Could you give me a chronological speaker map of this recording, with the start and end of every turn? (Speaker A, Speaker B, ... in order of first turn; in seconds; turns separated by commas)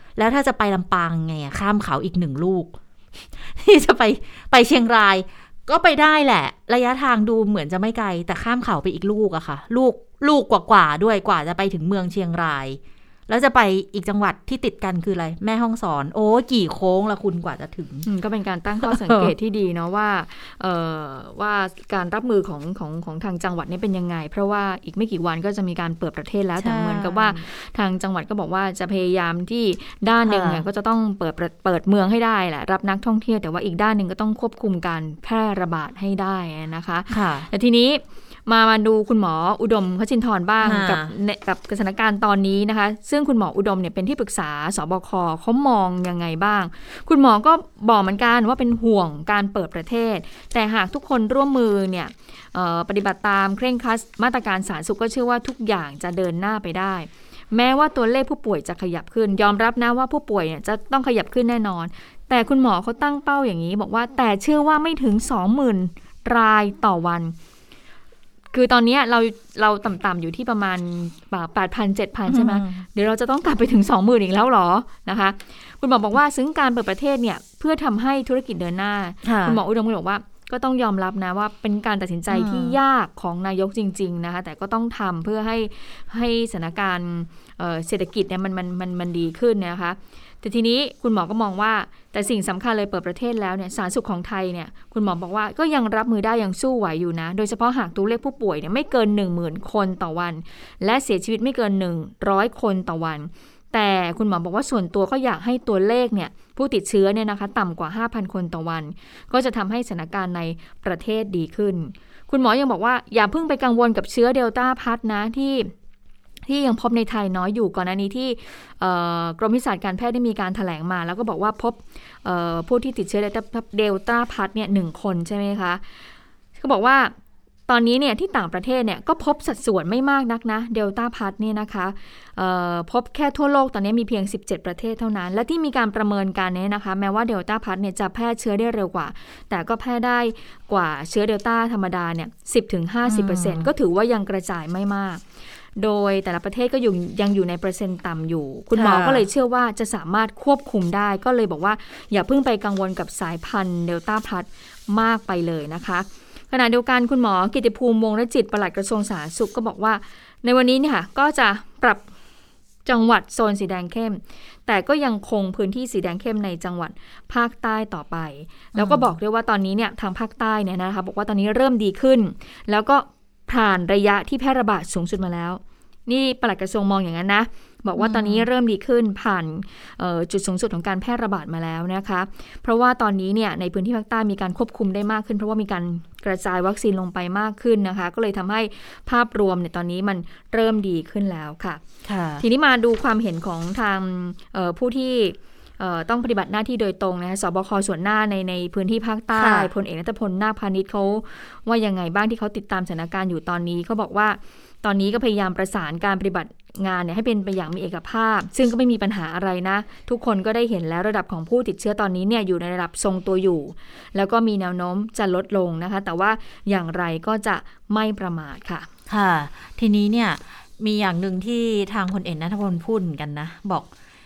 Speaker A: 0.2-18.1, Speaker B: 18.1-67.3, Speaker A: 18.8-19.3, Speaker A: 26.6-27.5, Speaker A: 30.2-30.6, Speaker A: 37.1-37.5, Speaker A: 40.6-41.1, Speaker B: 68.5-115.7, Speaker A: 72.3-72.8, Speaker A: 79.2-79.6, Speaker A: 82.3-82.8, Speaker B: 116.5-125.8, Speaker B: 126.6-127.1, Speaker B: 127.7-145.2, Speaker A: 143.1-143.7, Speaker B: 145.8-162.0, Speaker A: 148.7-149.2, Speaker B: 162.8-191.8, Speaker A: 168.7-169.2, Speaker A: 178.0-178.5, Speaker A: 192.0-192.4, Speaker B: 192.4-218.9, Speaker A: 199.3-199.7, Speaker A: 219.1-223.9